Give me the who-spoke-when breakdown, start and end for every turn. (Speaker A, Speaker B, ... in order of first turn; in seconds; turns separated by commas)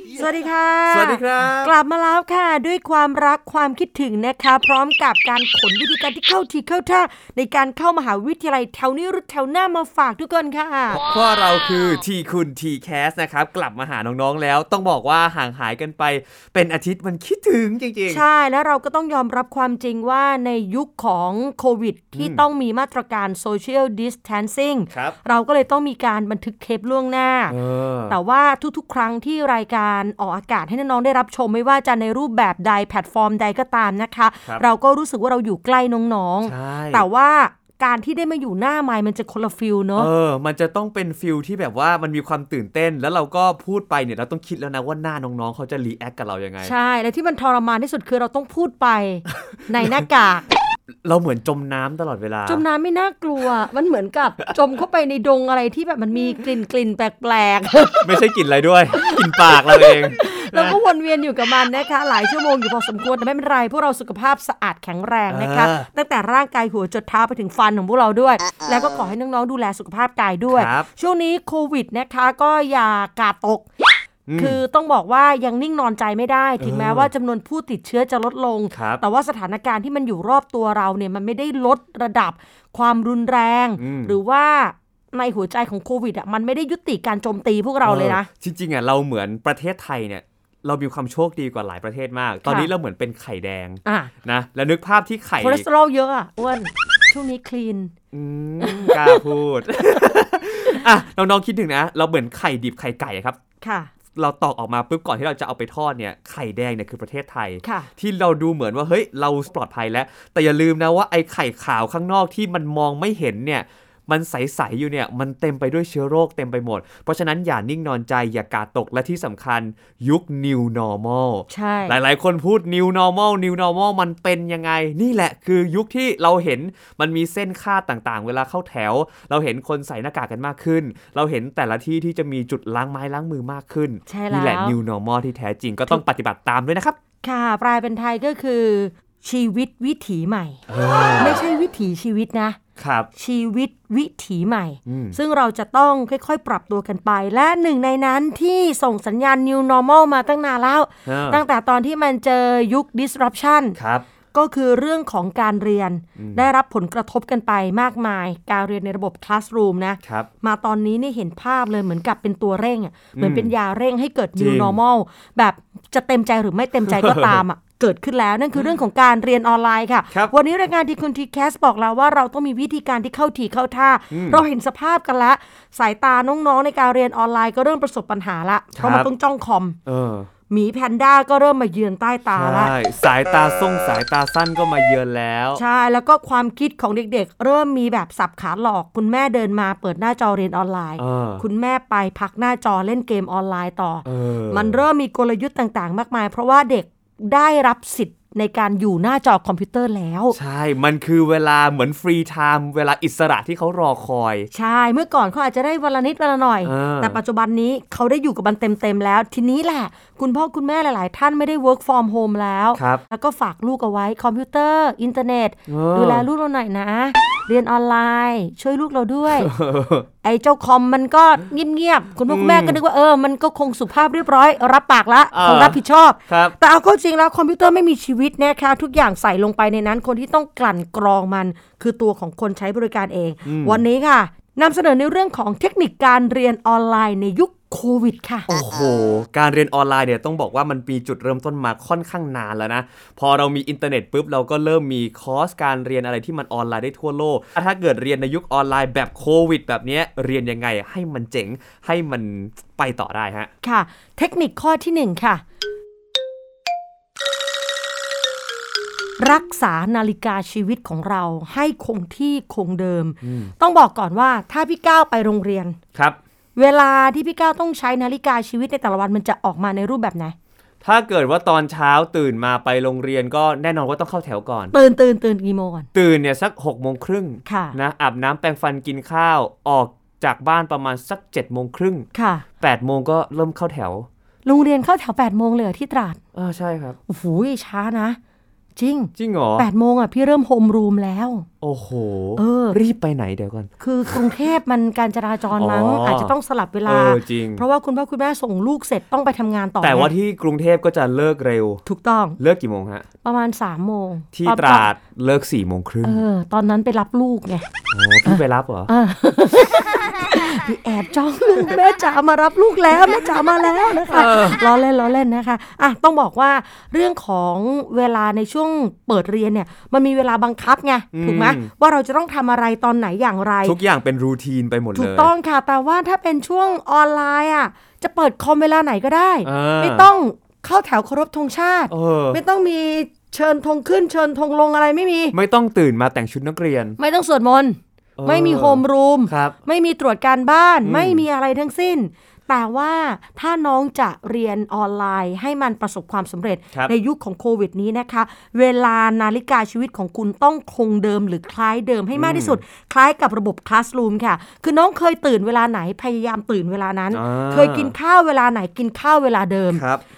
Speaker A: 0.2-11.0, Speaker B: 0.9-1.7, Speaker B: 11.0-18.2, Speaker A: 18.1-27.6, Speaker B: 22.2-22.4, Speaker B: 24.9-25.2, Speaker B: 27.5-28.2, Speaker A: 28.1-40.1, Speaker B: 36.5-37.0, Speaker B: 40.0-46.7, Speaker A: 46.6-50.5, Speaker B: 51.0-52.6, Speaker A: 52.5-58.1, Speaker B: 58.0-60.8, Speaker A: 58.9-73.7, Speaker B: 65.3-65.9, Speaker B: 70.5-70.9, Speaker B: 74.3-74.6, Speaker A: 74.4-88.3, Speaker B: 76.6-77.1, Speaker B: 78.7-79.0, Speaker B: 83.8-84.2, Speaker B: 87.8-95.7, Speaker A: 92.5-92.7, Speaker A: 93.8-94.1, Speaker A: 95.4-97.9, Speaker B: 98.1-103.4, Speaker A: 98.6-99.2, Speaker A: 103.6-103.9, Speaker B: 104.2-137.0, Speaker A: 107.6-107.9, Speaker A: 121.5-122.0, Speaker A: 134.1-134.8, Speaker A: 137.2-140.6, Speaker B: 140.7-141.4, Speaker A: 141.2-142.6, Speaker B: 142.8-143.1, Speaker A: 143.2-153.8, Speaker B: 144.9-145.2, Speaker B: 151.1-151.4, Speaker B: 153.8-154.1, Speaker A: 154.3-179.8, Speaker B: 156.2-156.5, Speaker B: 160.0-160.3, Speaker B: 163.2-163.5, Speaker B: 164.4-164.8, Speaker B: 166.9-167.4, Speaker B: 174.1-174.4, Speaker B: 178.8-179.1, Speaker B: 179.9-180.3, Speaker A: 180.5-182.7, Speaker B: 182.4-185.6, Speaker A: 185.6-200.4, Speaker B: 191.0-191.4, Speaker B: 194.1-194.8, Speaker B: 200.3-204.5, Speaker A: 204.5-219.5, Speaker B: 206.6-207.2, Speaker B: 212.8-213.0, Speaker B: 215.7-216.3, Speaker B: 219.4-220.1, Speaker A: 220.2-238.5, Speaker B: 222.3-222.8, Speaker B: 225.3-226.6, Speaker B: 233.4-233.8, Speaker B: 238.5-253.5, Speaker A: 253.6-255.4, Speaker A: 259.2-265.8, Speaker B: 263.2-263.5, Speaker A: 266.6-270.4, Speaker B: 270.8-274.7, Speaker A: 274.7-275.9, Speaker B: 275.9-282.1, Speaker A: 277.5-277.8, Speaker A: 282.1-282.4, Speaker B: 282.6-284.1, Speaker A: 284.4-286.2, Speaker B: 286.3-287.0, Speaker A: 287.1-288.2, Speaker A: 288.8-291.5, Speaker B: 289.2-289.7, Speaker B: 291.6-294.2, Speaker A: 292.4-292.8, Speaker A: 293.8-300.1, Speaker B: 295.6-296.3, Speaker B: 296.9-297.6, Speaker B: 299.8-301.8, Speaker A: 301.9-302.4, Speaker B: 302.4-303.1, Speaker A: 303.2-304.9, Speaker B: 304.3-306.2, Speaker A: 306.0-307.7, Speaker B: 307.9-308.9, Speaker A: 308.3-323.8, Speaker B: 314.1-314.6, Speaker B: 321.1-321.7, Speaker B: 323.6-325.3, Speaker A: 324.9-335.4, Speaker B: 329.4-330.1, Speaker B: 331.9-332.4, Speaker B: 335.3-337.0, Speaker A: 337.0-359.8, Speaker B: 338.2-339.6, Speaker B: 340.8-341.2, Speaker B: 352.1-352.6, Speaker B: 357.1-357.9, Speaker B: 359.7-360.0